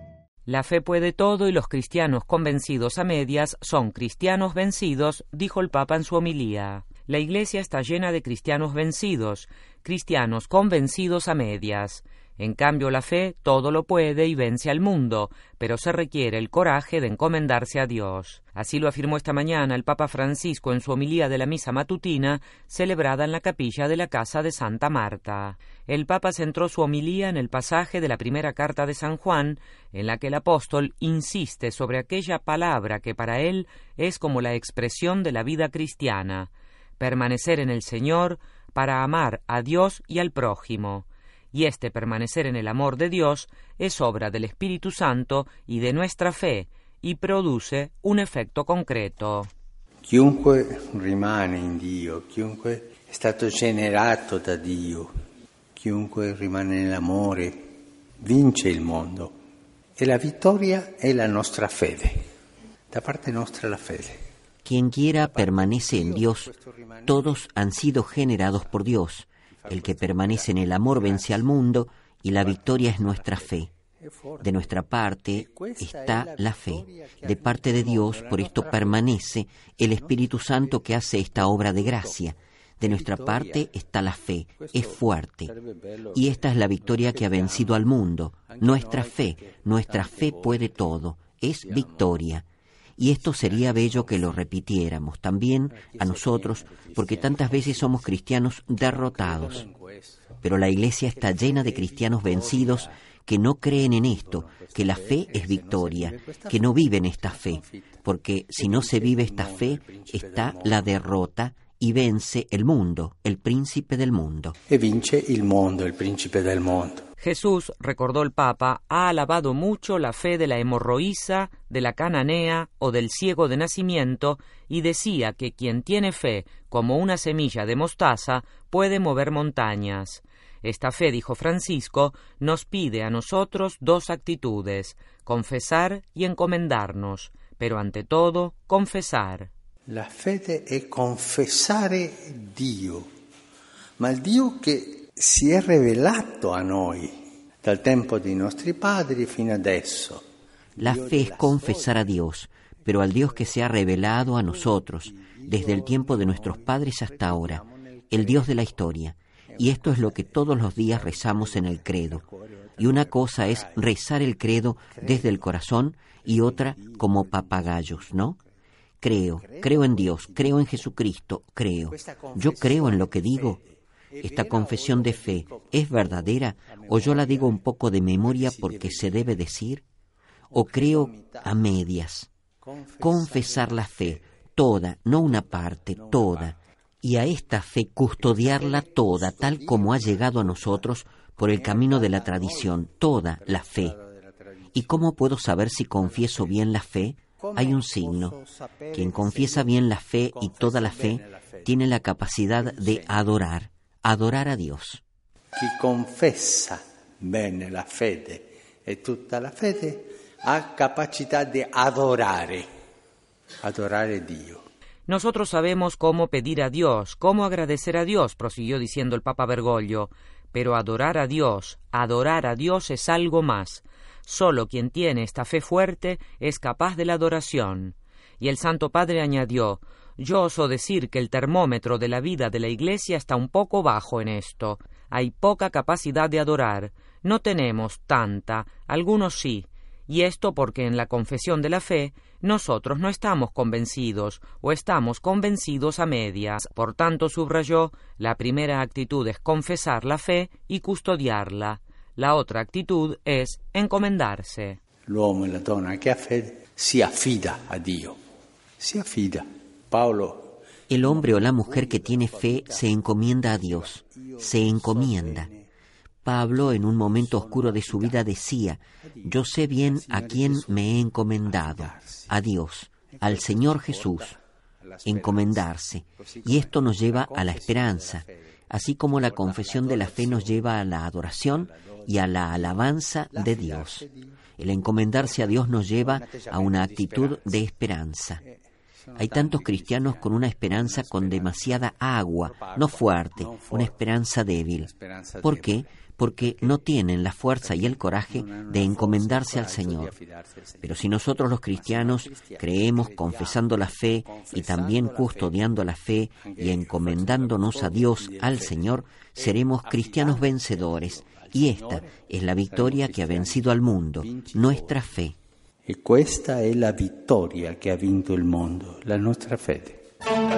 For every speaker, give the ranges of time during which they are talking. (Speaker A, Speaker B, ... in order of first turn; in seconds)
Speaker A: 0.5-49.5, 117.2-139.5, 215.1-254.8
Speaker B: 50.0-55.1, 55.7-57.7, 58.2-59.3, 60.0-62.2, 62.9-64.2, 65.2-67.5, 68.5-68.8, 69.5-71.5, 72.3-79.2, 79.9-82.3, 82.8-83.8, 84.5-87.9, 88.4-91.0, 91.6-92.3, 93.2-94.5, 95.7-98.2, 98.8-100.4, 101.1-103.0, 103.7-111.0, 114.7-117.0, 139.9-143.1, 144.0-150.2, 150.8-152.2, 152.8-158.9, 159.5-164.0, 164.9-165.6, 166.2-168.4, 169.3-170.9, 171.9-177.6, 178.2-179.4, 180.5-181.7, 182.6-184.2, 185.2-186.6, 188.2-196.7, 197.4-201.8, 202.6-203.3, 205.6-212.7, 213.6-214.6, 255.1-258.2, 258.8-265.7, 266.5-268.3, 269.0-272.4, 273.1-280.8, 281.5-284.4, 285.1-287.7, 288.4-294.0, 294.8-296.9, 297.4-305.8, 306.4-315.1, 315.8-320.0
Speaker C: 64.6-66.5, 67.1-73.7, 74.4-85.5, 86.1-92.5, 93.0-99.6, 100.4-114.5, 150.8-162.2, 162.8-168.4, 169.0-173.6, 174.2-179.8, 180.5-182.3, 183.0-193.9, 194.7-198.3, 198.9-205.0, 260.9-265.5, 266.2-274.3, 275.0-284.1, 284.6-288.4, 289.2-294.9, 295.4-300.1, 300.8-315.4